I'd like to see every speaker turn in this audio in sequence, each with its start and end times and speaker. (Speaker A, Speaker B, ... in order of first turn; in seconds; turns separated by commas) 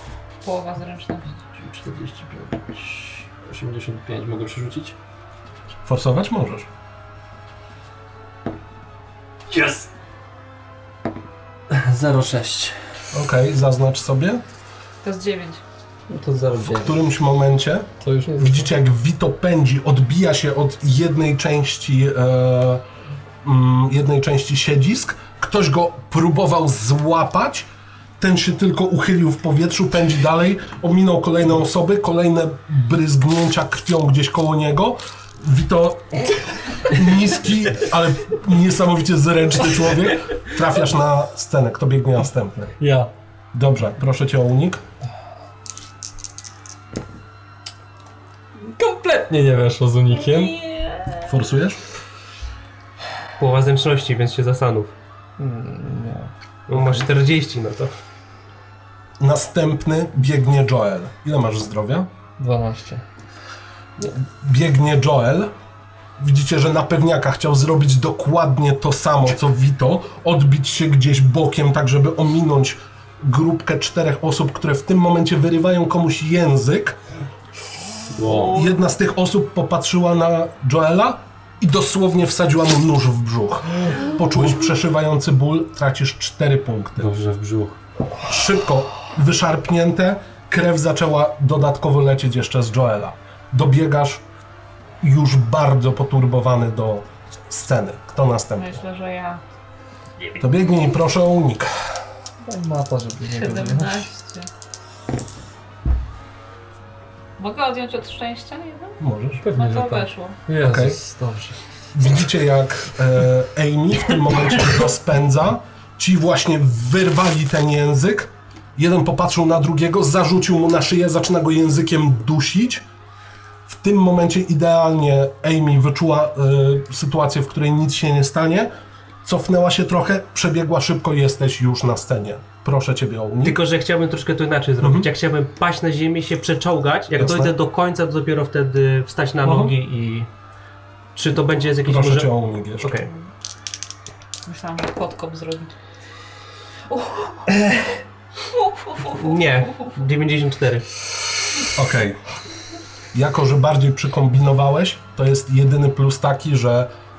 Speaker A: 0.4-1.4, Speaker B: 1.6-4.9, Speaker C: 5.8-6.7, Speaker B: 9.5-9.8, Speaker B: 11.8-12.7, Speaker C: 13.1-14.4, Speaker A: 15.0-15.6, Speaker D: 16.1-16.9, Speaker C: 16.6-22.8, Speaker D: 18.0-18.7, Speaker C: 23.4-27.7, Speaker C: 28.2-36.3, Speaker C: 36.8-42.7, Speaker D: 42.8-43.1, Speaker C: 43.5-44.8, Speaker D: 48.6-50.6, Speaker A: 50.3-51.1, Speaker C: 51.2-51.8, Speaker E: 53.4-54.9, Speaker D: 55.4-57.1, Speaker E: 56.7-57.9, Speaker C: 59.2-62.1, Speaker D: 62.4-63.0, Speaker C: 64.0-65.5, Speaker C: 66.2-77.0, Speaker B: 78.1-78.6, Speaker C: 78.3-87.1, Speaker B: 87.0-87.8, Speaker C: 88.2-94.2, Speaker C: 95.0-98.7, Speaker A: 98.5-99.4, Speaker C: 100.4-101.7, Speaker D: 102.4-104.1, Speaker A: 103.2-104.5, Speaker A: 107.4-109.0, Speaker C: 109.0-109.4, Speaker D: 109.4-111.6, Speaker A: 109.5-110.4, Speaker C: 110.6-111.0, Speaker C: 111.9-122.8, Speaker C: 123.7-128.7, Speaker C: 129.2-133.6, Speaker E: 133.4-140.3, Speaker C: 134.8-135.1, Speaker C: 137.2-137.5, Speaker C: 139.4-139.7, Speaker E: 141.1-143.1, Speaker C: 141.8-142.9, Speaker A: 144.4-145.8, Speaker A: 146.9-147.6, Speaker A: 148.5-149.9, Speaker E: 149.1-150.9, Speaker C: 151.7-152.2, Speaker C: 153.1-156.9